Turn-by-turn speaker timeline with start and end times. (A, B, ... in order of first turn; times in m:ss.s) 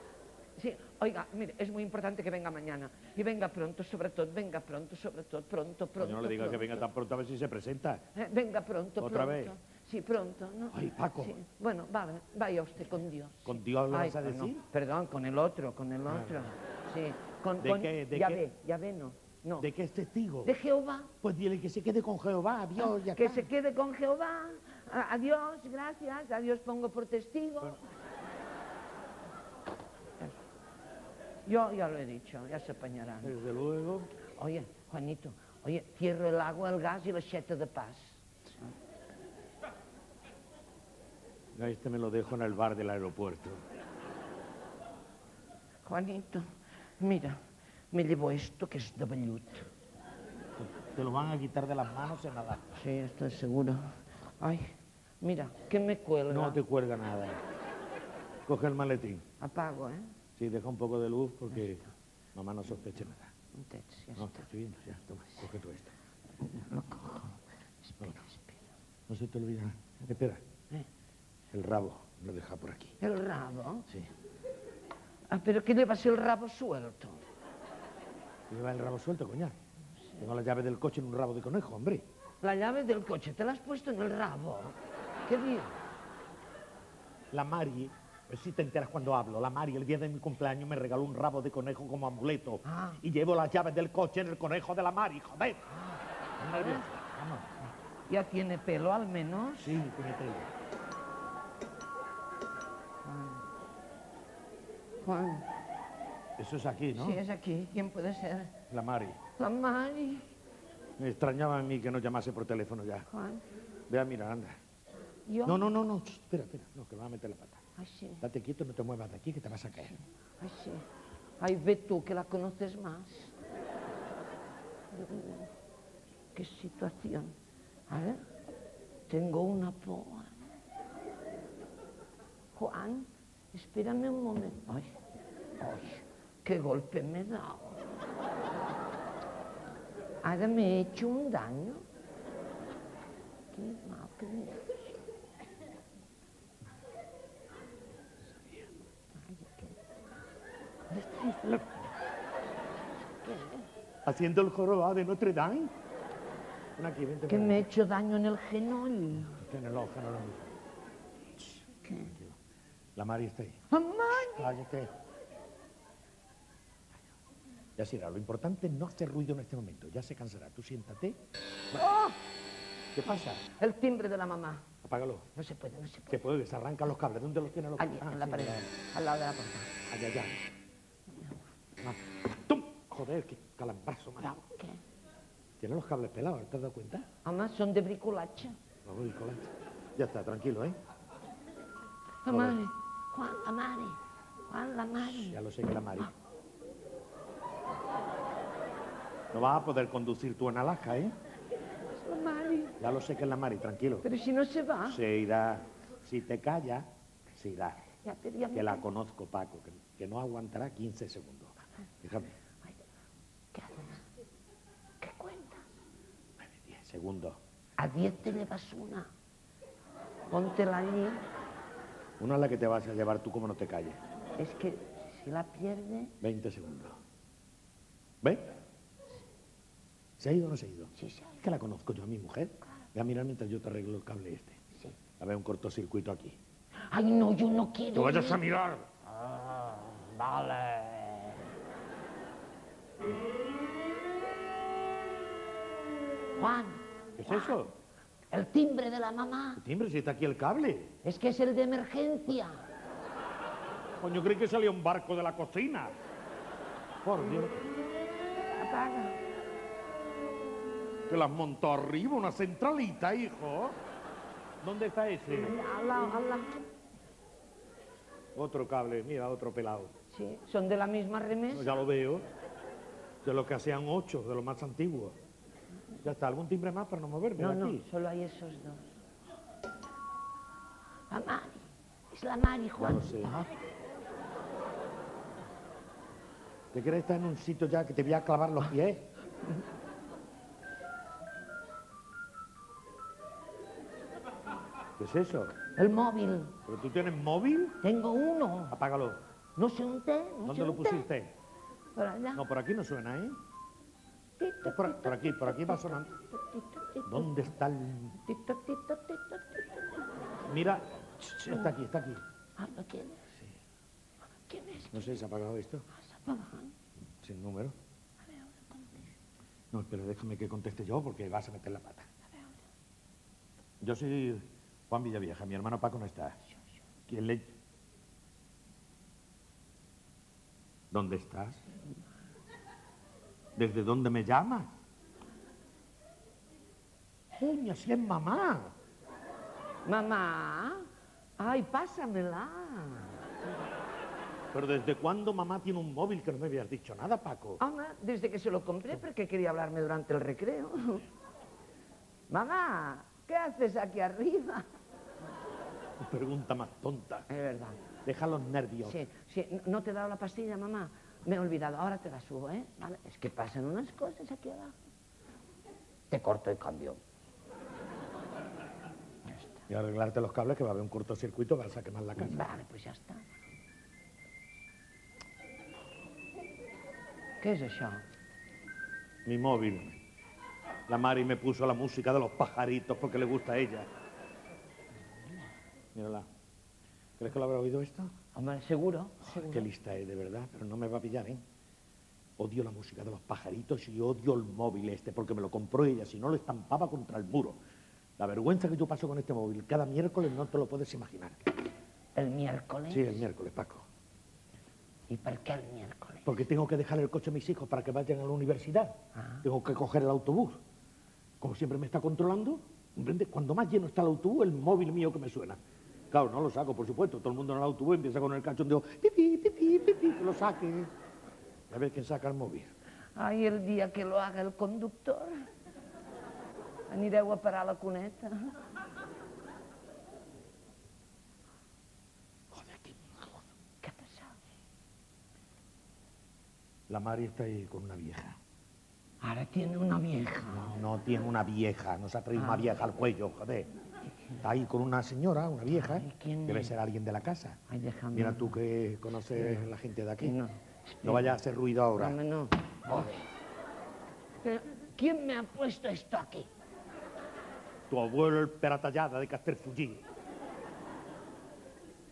0:00.6-0:06.8 A
0:06.0-0:08.0 B
0:08.2-0:19.7 A
0:09.0-0:09.6 B
0:10.7-0:11.4 B
0:13.5-0:14.6 B
0:16.1-0:16.5 B
0:17.6-0:18.4 B
0:19.6-0:20.6 B
0:20.4-0:21.1 A
0:21.2-0:23.5 B
0:22.8-0:27.8 A
0:31.4-0:33.4 A
0:33.2-0:34.1 B
0:34.3-0:38.2 A
0:41.6-0:43.6 B
0:45.8-0:49.7 A
0:50.6-0:52.7 B
0:52.7-0:56.6 A
0:56.3-0:57.4 B
0:58.5-0:59.2 B
0:59.4-1:00.1 A
1:00.4-1:01.8 B
1:01.5-1:01.9 A
1:02.4-1:03.3 B
1:03.5-1:04.5 A
1:04.2-1:05.9 B
1:06.4-1:08.6 A
1:09.1-1:10.4 B
1:11.5-1:13.0 B
1:13.0-1:13.9 A
1:15.3-1:17.2 A
1:18.5-1:19.6 B
1:20.2-1:22.0 B
1:22.4-1:25.8 A
1:27.3-1:35.7 B
1:32.6-1:33.0 A
1:35.9-1:36.9 A
1:36.4-1:37.5 B
1:38.1-1:39.8 A
1:39.6-1:40.5 B
1:43.0-1:43.4 A
1:45.0-1:45.5 A
1:46.4-1:47.2 B
1:46.9-1:48.5 A
1:48.7-1:49.2 B
1:49.4-1:50.3 A
1:51.0-1:53.1 B
1:53.1-1:53.4 A
1:53.9-1:54.6 B
1:55.3-1:55.7 A
1:55.4-1:57.6 B
1:57.8-1:58.2 A
1:58.2-2:00.0 B
1:59.9-2:00.8 A
2:01.4-2:03.4 A
2:04.9-2:05.5 A
2:06.3-2:07.3 A
2:07.9-2:08.2 A
2:09.1-2:10.5 A
2:12.5-2:14.9 A
2:15.6-2:17.9 A
2:20.2-2:21.8 A
2:23.5-2:25.0 A
2:29.2-2:29.8 A
2:30.9-2:31.8 B
2:33.2-2:33.7 A
2:34.0-2:35.7 B
2:36.8-2:37.7 B
2:37.3-2:39.4 A
2:39.4-2:40.6 B
2:41.5-2:42.2 A
2:43.0-2:43.6 B
2:43.7-2:44.6 A
2:44.3-2:44.9 B
2:47.8-2:51.2 B
2:51.8-2:52.2 A
2:52.9-2:53.4 B
2:53.5-2:54.6 A
2:54.8-2:55.3 B
2:55.4-2:56.2 A
2:56.1-2:58.7 B
2:57.8-2:59.7 A
2:59.9-3:00.4 B
3:01.1-3:01.4 A
3:01.8-3:04.4 B
3:04.4-3:04.8 A
3:05.6-3:07.0 B
3:07.2-3:08.6 A
3:08.8-3:10.8 B
3:12.2-3:14.0 A
3:12.3-3:12.6 B
3:14.5-3:15.4 A
3:15.0-3:16.1 B
3:19.3-3:21.2 B
3:21.9-3:22.8 A
3:22.8-3:24.1 B
3:24.0-3:25.0 A
3:24.8-3:27.9 B
3:28.0-3:28.9 A
3:28.5-3:32.3 B
3:33.5-3:34.0 A
3:35.0-3:35.7 A
3:36.4-3:37.4 B
3:37.8-3:39.1 A
3:40.3-3:41.2 A
3:42.2-3:44.0 B
3:44.4-3:46.2 A
3:46.2-3:46.9 B
3:48.2-3:48.5 B
3:50.2-3:54.6 B
3:51.0-3:51.4 A
3:55.2-3:56.4 B
3:56.8-3:58.4 A
3:57.9-3:58.9 B
3:59.1-4:01.5 A
4:06.4-4:07.6 A
4:07.2-4:07.7 B
4:08.3-4:09.6 A
4:09.6-4:10.9 B
4:11.0-4:12.6 A
4:14.0-4:15.9 B
4:17.0-4:17.7 B
4:18.5-4:19.2 A
4:21.1-4:23.8 B
4:24.6-4:25.6 B
4:25.3-4:26.6 A
4:28.3-4:29.9 B
4:30.1-4:31.8 A
4:31.5-4:32.2 B
4:33.2-4:35.2 B
4:36.0-4:37.8 B
4:37.4-4:38.9 A
4:41.1-4:43.5 A
4:42.8-4:43.4 B
4:46.7-4:49.1 B
4:55.0-4:55.6 B
4:55.8-4:56.6 A
4:56.6-4:57.8 B
4:57.8-4:58.8 A
4:58.7-4:59.2 B
4:59.6-5:01.1 A
5:00.4-5:01.3 B
5:01.9-5:02.4 A
5:02.3-5:03.4 B
5:04.4-5:07.5 A
5:04.6-5:06.0 B
5:07.1-5:08.2 B
5:08.2-5:10.1 A
5:10.4-5:12.2 B
5:12.6-5:13.3 A
5:14.5-5:15.2 A
5:14.9-5:15.8 B
5:15.9-5:16.8 A
5:17.2-5:17.8 B
5:18.3-5:19.1 A
5:19.7-5:22.1 B
5:23.8-5:26.4 B
5:27.1-5:27.5 B
5:30.9-5:31.6 B
5:33.6-5:34.7 B
5:37.3-5:38.7 B
5:39.8-5:40.9 A
5:41.4-5:43.2 A
5:44.5-5:47.6 B
5:47.6-5:51.1 A
5:52.3-5:54.7 A
5:56.0-5:57.3 B
5:57.3-5:57.8 A
5:58.0-5:59.0 B
5:58.8-6:04.8 A
6:06.1-6:07.0 A
6:09.7-6:12.5 B
6:12.2-6:13.2 A
6:17.4-6:18.0 A
6:19.3-6:20.0 B
6:20.9-6:23.9 B
6:25.9-6:26.3 B
6:27.2-6:28.1 B
6:28.3-6:29.7 A
6:29.2-6:31.4 B
6:32.4-6:37.6 B
6:38.2-6:41.5 B
6:42.2-6:43.3 A
6:42.9-6:43.8 B
6:45.1-6:46.4 A
6:46.2-6:50.6 B
6:51.4-6:55.6 B
6:56.1-7:00.9 B
7:01.7-7:02.7 B
7:03.2-7:05.4 A
7:06.9-7:08.6 A
7:12.5-7:13.4 B
7:13.8-7:14.4 A
7:16.9-7:18.4 B
7:19.2-7:20.7 A
7:20.5-7:23.7 B
7:22.3-7:22.7 A
7:24.4-7:27.6 B
7:25.7-7:26.8 A
7:27.7-7:28.6 A
7:28.1-7:30.4 B
7:29.3-7:31.3 A
7:31.0-7:32.2 B
7:31.9-7:33.3 A
7:34.4-7:36.5 A
7:37.9-7:40.0 B